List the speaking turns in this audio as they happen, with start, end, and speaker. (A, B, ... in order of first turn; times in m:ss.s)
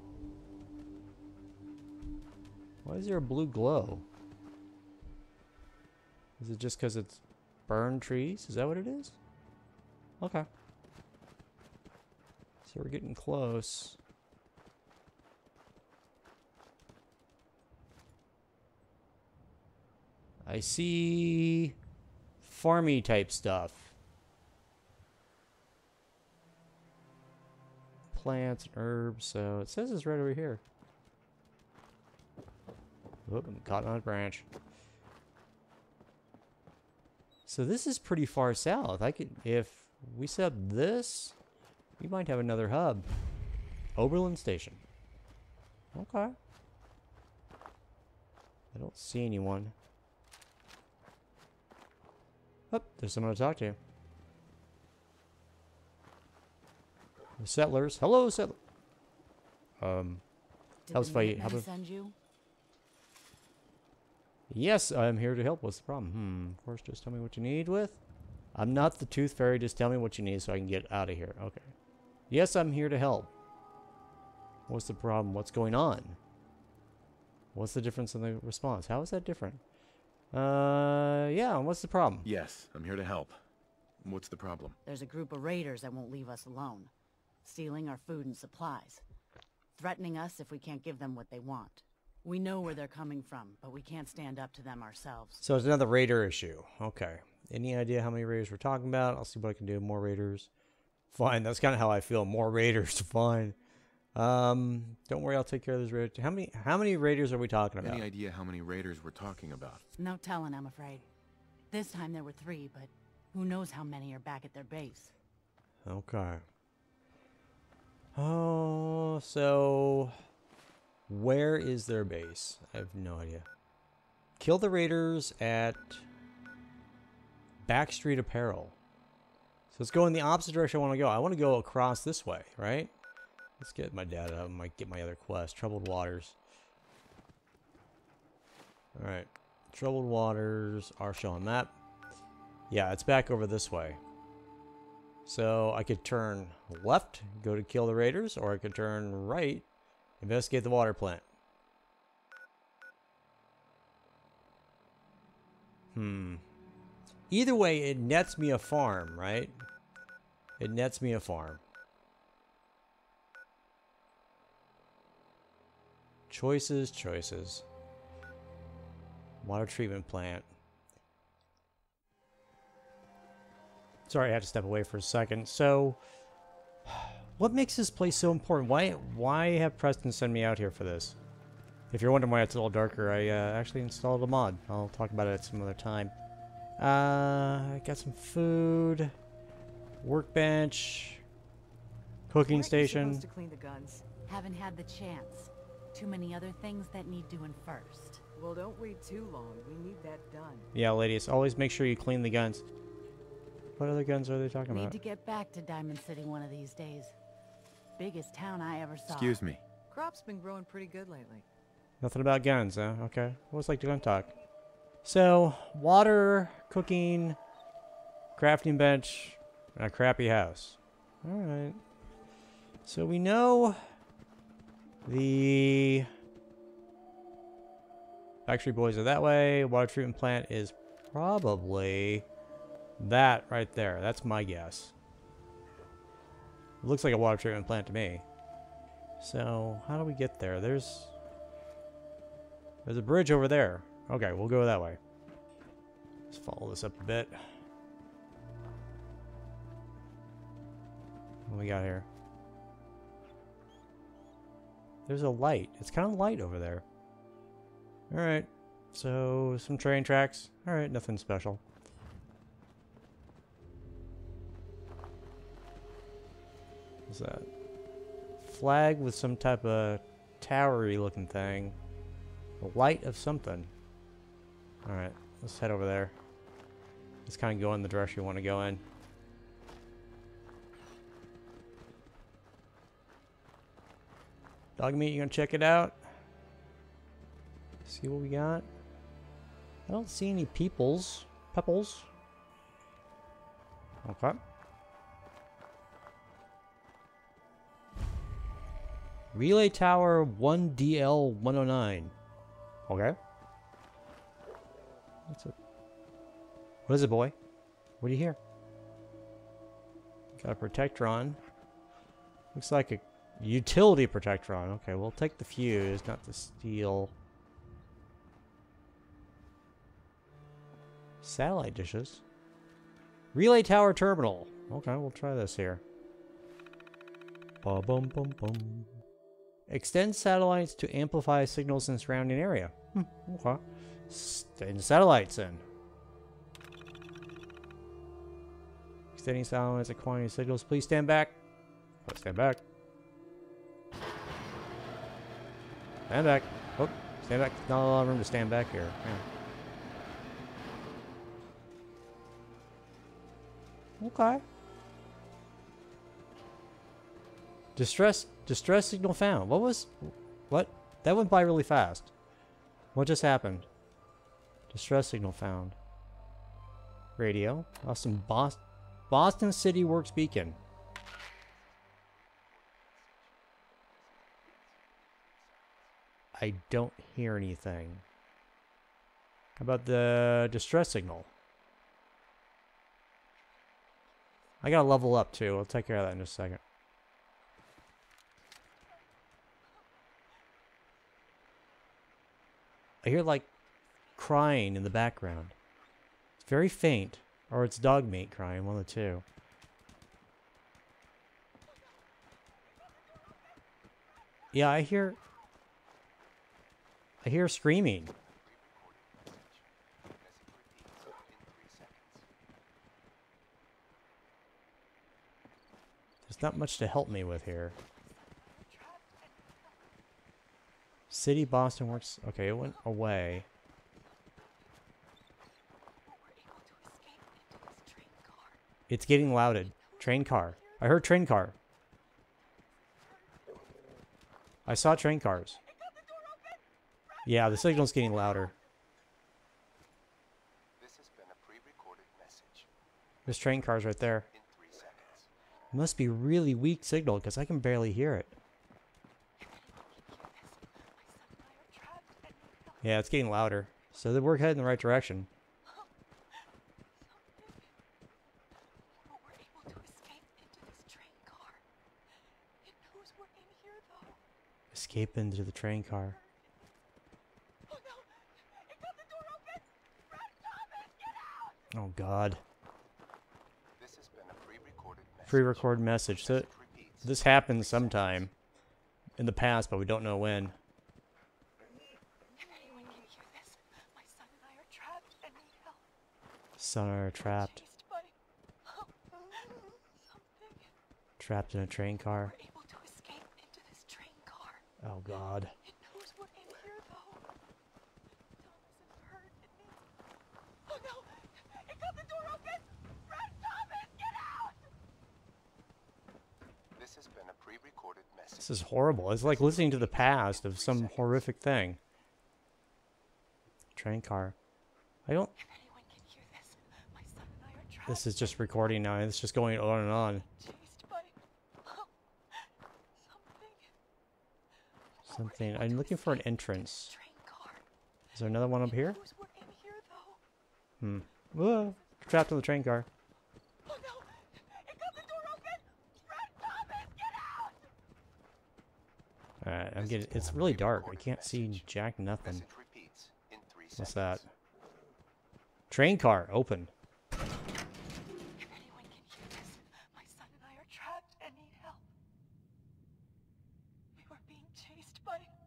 0:02.8-0:04.0 A
0:06.4-0:09.2 A
0:10.2-0:10.5 A
0:12.7-0:14.0 A
0:20.4-0:21.8 A
0:22.4-0:23.9 A
0:28.1-0:30.6 A
0:33.3-0:34.5 A
0:37.5-0:41.4 A
0:42.0-0:43.1 A
0:44.0-0:44.8 A
0:45.9-0:46.4 A
0:48.7-0:49.7 A
0:52.7-0:53.8 A
0:57.4-0:58.6 A
0:59.8-1:00.2 A
1:00.9-1:02.2 B
1:00.9-1:01.7 A
1:04.5-1:08.0 A
1:08.6-1:11.7 A
1:12.3-1:13.3 A
1:14.7-1:16.2 A
1:17.5-1:19.6 A
1:20.3-1:22.3 A
1:22.2-1:23.4 C
1:24.0-1:24.8 C
1:24.9-1:26.9 B
1:27.4-1:29.0 B
1:29.8-1:35.4 B
1:35.4-1:40.5 A
1:41.1-1:43.6 A
1:44.2-1:48.1 A
1:47.8-1:49.8 C
1:50.0-1:51.0 B
1:51.7-1:55.1 B
1:55.8-1:56.4 A
1:58.2-2:00.2 A
2:01.1-2:03.5 A
2:04.4-2:06.1 A
2:07.6-2:08.8 A
2:09.7-2:12.9 A
2:13.6-2:16.4 A
2:19.0-2:21.7 A
2:22.7-2:24.0 A
2:25.3-2:29.6 A
2:30.2-2:31.2 A
2:36.0-2:36.4 A
2:37.3-2:39.6 A
2:40.6-2:41.6 A
2:46.3-2:47.6 A
2:49.4-2:50.5 A
2:54.1-2:56.0 A
2:56.9-3:01.2 A
3:01.9-3:06.1 A
3:06.8-3:09.1 A
3:10.0-3:11.2 A
3:12.3-3:13.3 A
3:12.5-3:14.1 D
3:14.3-3:18.2 B
3:18.4-3:20.7 D
3:20.7-3:22.6 A
3:23.8-3:25.0 A
3:24.7-3:27.1 B
3:28.0-3:29.4 B
3:29.1-3:29.6 C
3:29.9-3:31.5 D
3:32.0-3:34.3 A
3:35.0-3:37.4 A
3:38.4-3:41.8 A
3:42.9-3:43.8 A
3:45.1-3:46.1 A
3:48.5-3:52.3 A
3:53.0-3:54.9 A
3:56.8-3:58.2 A
3:59.2-4:01.1 A
4:02.8-4:05.0 A
4:06.3-4:07.5 A
4:11.5-4:12.1 A
4:15.1-4:16.8 A
4:18.1-4:21.6 A
4:27.1-4:27.5 A
4:28.4-4:31.8 A
4:32.6-4:33.7 A
4:34.8-4:36.2 A
4:37.3-4:38.8 A
4:44.8-4:46.0 A
4:47.9-4:48.7 A
4:49.9-4:52.1 A
4:54.0-4:54.4 A
4:59.3-5:02.2 A
5:02.9-5:03.2 A
5:05.3-5:05.5 A
5:06.9-5:07.4 A
5:08.0-5:08.4 A
5:10.4-5:11.4 A
5:12.5-5:17.1 A
5:21.2-5:22.2 A
5:23.3-5:25.8 A
5:27.6-5:28.9 A
5:29.7-5:35.6 A
5:39.2-5:41.4 A
5:42.0-5:42.6 A
5:46.1-5:49.2 A
5:54.0-5:54.4 A
5:57.8-6:02.1 A
6:03.0-6:03.7 A
6:04.7-6:05.8 A
6:07.2-6:10.6 A
6:11.2-6:16.0 E
6:16.4-6:18.0 A
6:19.6-6:21.3 A
6:24.6-6:26.6 A
6:33.0-6:33.5 A
6:34.2-6:35.6 A
6:36.4-6:39.2 A
6:44.5-6:45.2 A
6:47.2-6:48.1 A
6:48.0-6:52.3 E
6:56.3-6:57.8 A
6:58.0-7:00.0 F
7:01.1-7:03.5 A
7:04.0-7:04.8 F
7:06.0-7:08.6 F
7:08.9-7:11.6 A
7:09.5-7:11.2 F
7:12.4-7:13.6 F
7:14.7-7:15.6 A
7:15.5-7:16.6 F
7:17.3-7:18.5 A
7:17.5-7:18.5 F
7:20.8-7:22.7 E
7:23.3-7:24.3 A
7:24.3-7:25.3 E
7:25.7-7:28.4 A
7:29.4-7:33.1 F
7:32.8-7:35.3 A
7:33.8-7:34.2 F
7:35.6-7:37.8 F
7:39.0-7:41.6 F
7:42.6-7:44.2 F
7:44.7-7:46.2 A
7:45.9-7:46.8 F
7:47.7-7:51.6 F
7:51.7-7:52.4 A
7:53.8-7:58.3 E
7:55.3-7:56.5 A
7:57.0-7:58.3 A
7:59.2-8:00.6 A
8:02.4-8:05.9 F
8:06.6-8:07.6 A
8:07.2-8:10.7 F
8:11.2-8:12.3 A
8:12.1-8:14.6 F
8:14.8-8:15.5 A
8:15.6-8:17.3 F
8:18.4-8:19.9 F
8:20.7-8:24.7 F
8:26.8-8:31.3 E
8:28.4-8:31.8 A
8:33.8-8:34.4 A
8:35.1-8:35.3 A
8:35.4-8:38.8 F
8:37.9-8:40.2 A
8:40.2-8:43.7 F
8:45.0-8:47.6 F
8:45.1-8:47.0 A
8:48.2-8:49.0 A
8:48.6-8:50.2 F
8:50.8-8:52.9 A
8:51.4-8:52.1 F
8:53.7-8:57.6 F
8:59.4-9:02.5 A
8:59.8-9:04.3 E
9:03.8-9:04.3 A
9:05.7-9:06.7 A
9:08.4-9:11.8 F
9:14.0-9:15.3 F